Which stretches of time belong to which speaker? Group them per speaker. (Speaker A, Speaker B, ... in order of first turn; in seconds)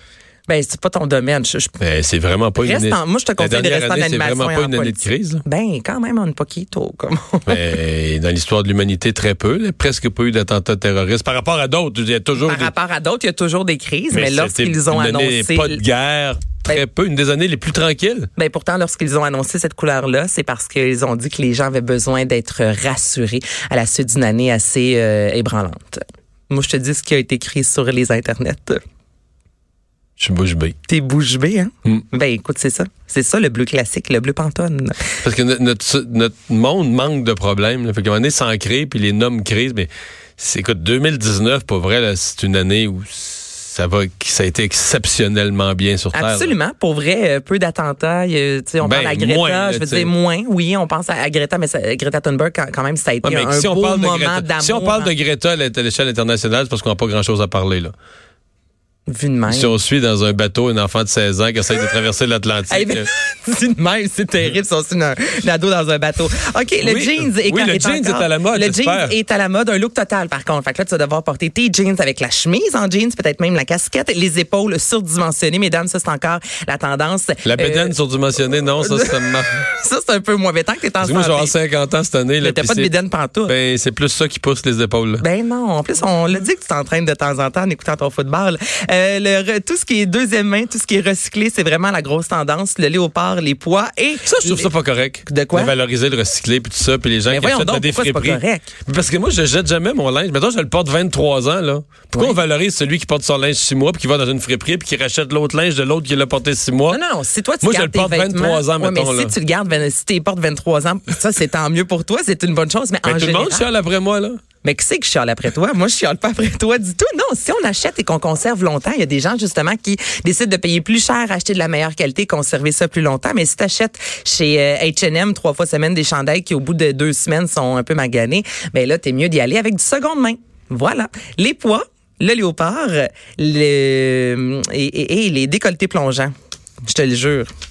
Speaker A: 0.5-1.8, 2.6-7.6, 12.4-15.8, 18.4-28.8, 30.9-35.0, 46.1-55.1, 59.1-59.8, 62.7-77.9, 78.8-81.5, 82.4-83.5, 85.2-94.7, 95.2-95.7, 97.3-98.7, 102.1-102.4, 106.9-113.7, 114.6-136.3, 136.8-137.5
Speaker B: 1.8-5.4, 7.5-12.7, 14.1-18.3, 30.2-30.8, 35.2-46.5, 48.8-50.1, 53.2-57.9, 59.5-63.1, 66.8-69.1, 77.4-79.6, 81.0-82.9, 83.5-85.2, 94.2-107.0, 107.6-109.3, 113.0-114.4